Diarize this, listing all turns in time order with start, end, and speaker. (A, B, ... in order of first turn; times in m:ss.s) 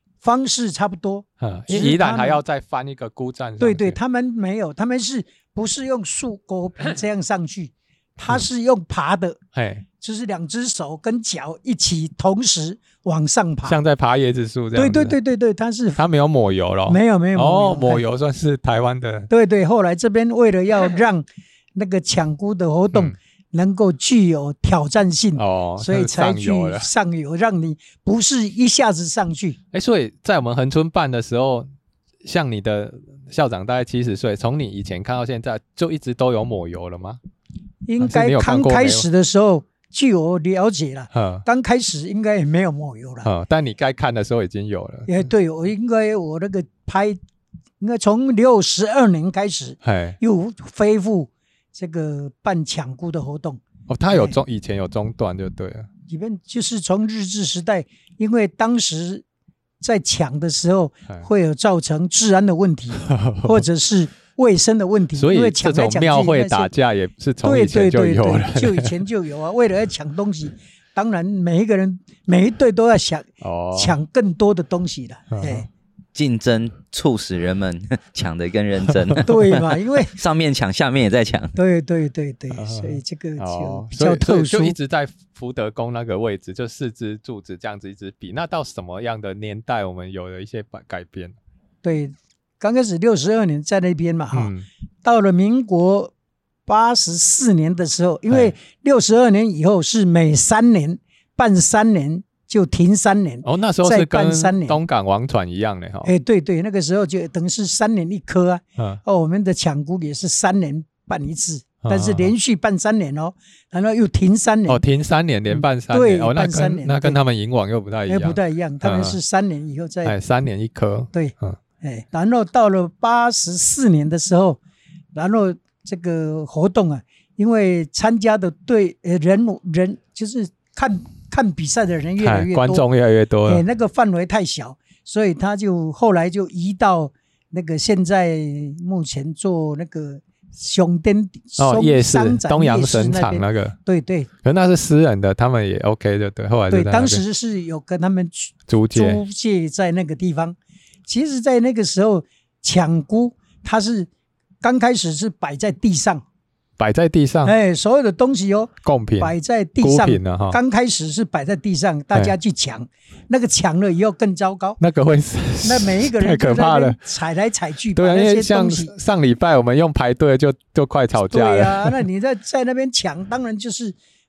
0:00.2-0:02.4 A
0:01.4-0:04.0 B
0:03.6-0:09.4 A
0:09.5-0:09.8 B
0:10.0-0:13.8 A
0:13.6-0:15.2 B
0:14.7-0:16.0 A
0:16.0-0:19.3 B
0:16.9-0:18.0 A
0:19.3-0:29.6 A
0:25.4-0:26.9 B
0:29.7-0:31.7 B
0:32.2-0:37.2 B
0:37.8-0:43.3 A
0:38.0-0:39.1 B
0:41.1-0:41.4 B
0:43.2-0:45.1 B
0:45.1-0:47.2 A
0:47.8-0:54.4 A
0:49.8-0:50.2 B
0:53.9-0:55.9 B
0:56.1-0:59.2 A
0:59.8-1:06.7 A
1:03.0-1:03.6 B
1:05.1-1:08.9 B
1:07.4-1:15.7 A
1:13.4-1:14.0 B
1:15.3-1:15.6 B
1:16.1-1:21.5 C
1:19.2-1:20.1 A
1:21.5-1:24.8 A
1:22.5-1:31.3 B
1:31.8-1:34.5 A
1:34.3-1:34.6 B
1:35.0-1:36.1 A
1:36.6-1:44.8 A
1:38.3-1:38.5 B
1:43.4-1:46.1 B
1:46.0-1:54.8 A
1:51.8-1:52.3 B
1:54.7-1:59.2 B
1:55.5-1:57.2 A
1:58.1-2:00.1 A
2:00.0-2:01.6 B
2:01.1-2:04.6 A
2:05.1-2:12.8 A
2:12.2-2:13.6 B
2:13.4-2:24.3 A
2:21.6-2:23.8 B
2:24.4-2:27.2 B
2:26.7-2:30.6 A
2:28.7-2:29.2 B
2:31.1-2:34.1 A
2:34.6-2:36.2 A
2:36.8-2:37.5 B
2:37.4-2:44.8 A
2:38.8-2:40.6 B
2:44.8-2:47.0 B
2:45.6-2:48.9 A
2:47.9-2:52.0 B
2:51.2-2:54.0 A